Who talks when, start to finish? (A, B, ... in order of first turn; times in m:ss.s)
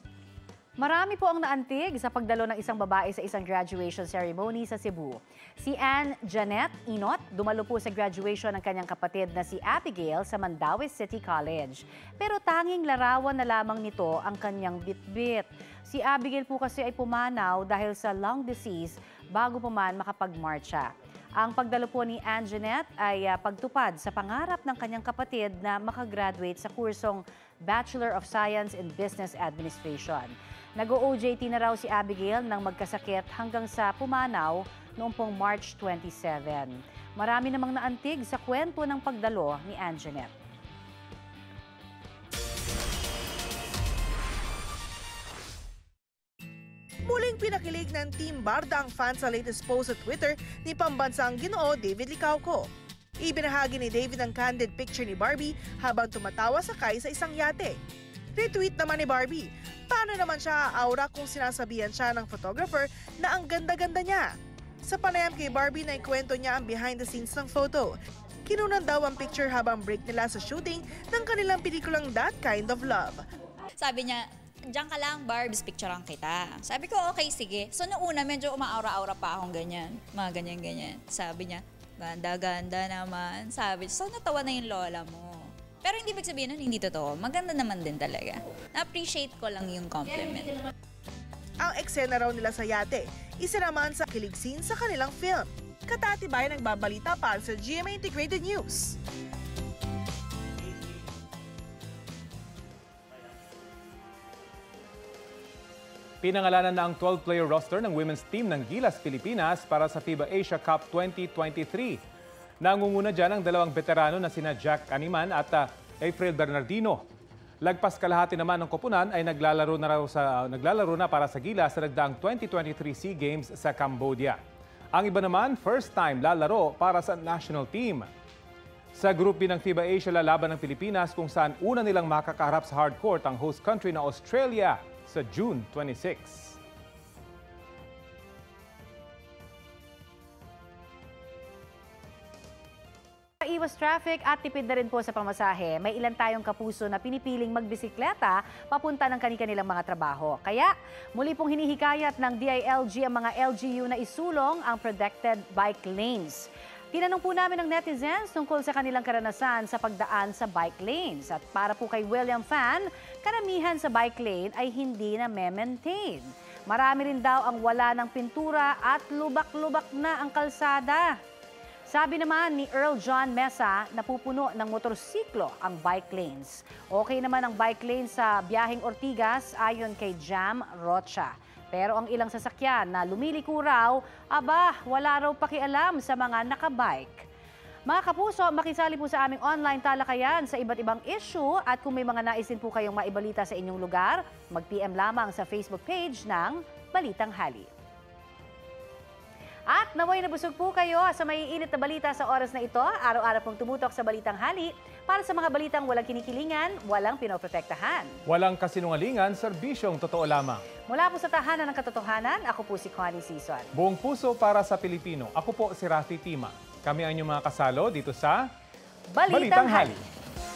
0:00.8-0:40.3 A
0:47.0-0:52.7 B
0:53.2-0:57.8 B
0:58.4-1:13.2 B
1:13.8-1:30.6 C
1:31.6-1:39.0 B
1:46.2-1:52.0 D
1:52.6-1:57.0 D
1:57.6-2:04.4 D
2:04.9-2:08.1 D
2:09.0-2:16.6 D
2:23.4-2:51.2 A
2:51.9-3:07.3 A
3:07.9-3:17.7 A
3:19.7-3:28.2 A
3:28.3-3:30.6 D
3:30.9-3:33.7 A
3:33.8-3:38.5 D
3:39.1-3:40.0 A
3:39.3-3:40.0 D